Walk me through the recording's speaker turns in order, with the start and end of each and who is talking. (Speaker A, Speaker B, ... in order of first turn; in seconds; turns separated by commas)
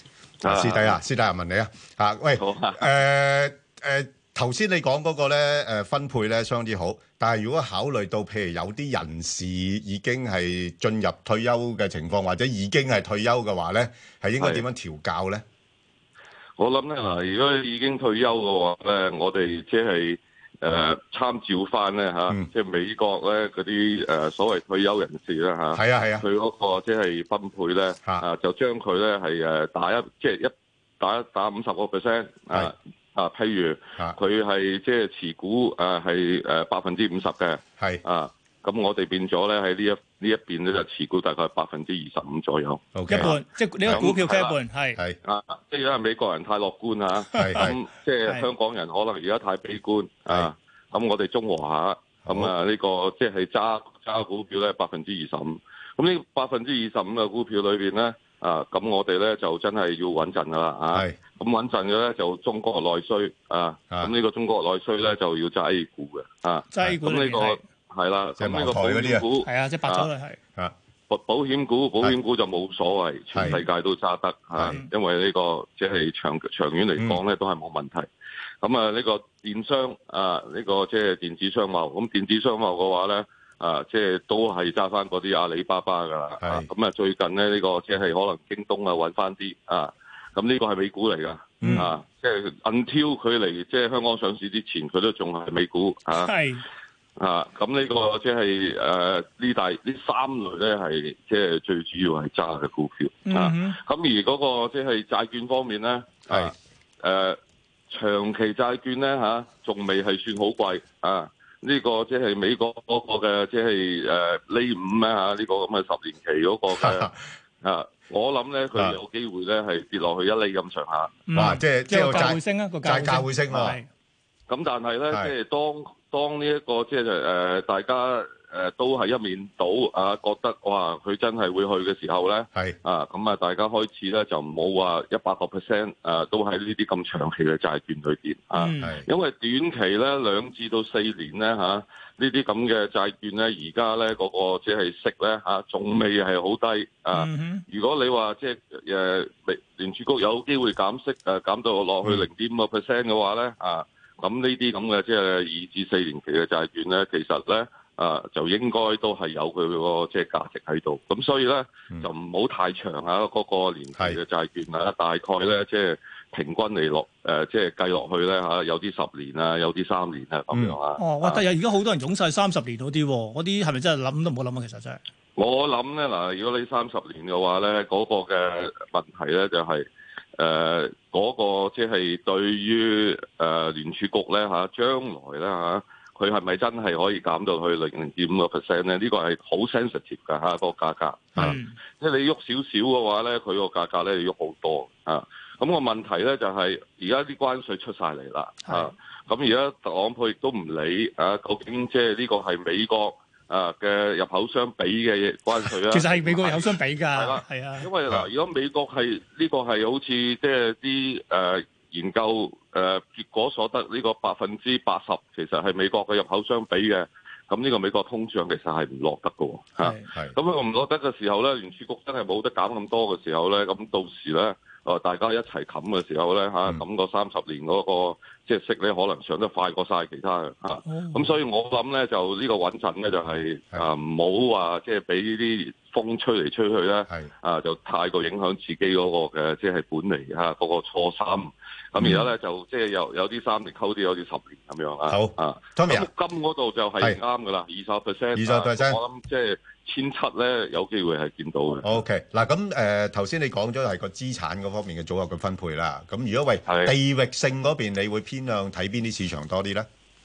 Speaker A: 0.4-1.0, Speaker B: 0.4-15.4, Speaker A: 2.4-2.9, Speaker A: 14.4-14.7, Speaker A: 16.6-44.6, Speaker B: 25.7-26.2, Speaker B: 43.0-43.3, Speaker C: 43.1-45.0, Speaker A: 45.2-70.1, Speaker B: 47.4-47.8, Speaker C: 47.5-47.7, Speaker B: 52.2-52.5, Speaker B: 60.9-61.2, Speaker C: 66.7-67.6, Speaker B: 68.4-69.3, Speaker C: 69.4-70.4, Speaker A: 71.1-78.1, Speaker B: 73.3-73.6, Speaker A: 78.6-96.4, Speaker B: 86.4-86.7, Speaker B: 91.6-91.9, Speaker C: 96.2-96.6, Speaker A: 97.2-107.4, Speaker C: 103.3-103.8, Speaker B: 106.3-106.5, Speaker A: 107.9-117.1, Speaker B: 116.7-117.2, Speaker A: 117.6-121.5, Speaker C: 121.3-123.9, Speaker B: 121.3-123.8, Speaker A: 124.5-171.4, Speaker C: 138.6-138.9, Speaker B: 138.8-139.1, Speaker C: 147.1-147.6, Speaker B: 170.5-170.8, Speaker C: 171.0-175.0, Speaker A: 175.4-252.0, Speaker C: 191.4-191.8, Speaker C: 198.7-198.9, Speaker C: 205.9-207.9, Speaker C: 230.9-231.3, Speaker B: 245.1-246.1, Speaker B: 248.3-249.0, Speaker B: 251.8-259.9, Speaker A: 256.7-256.9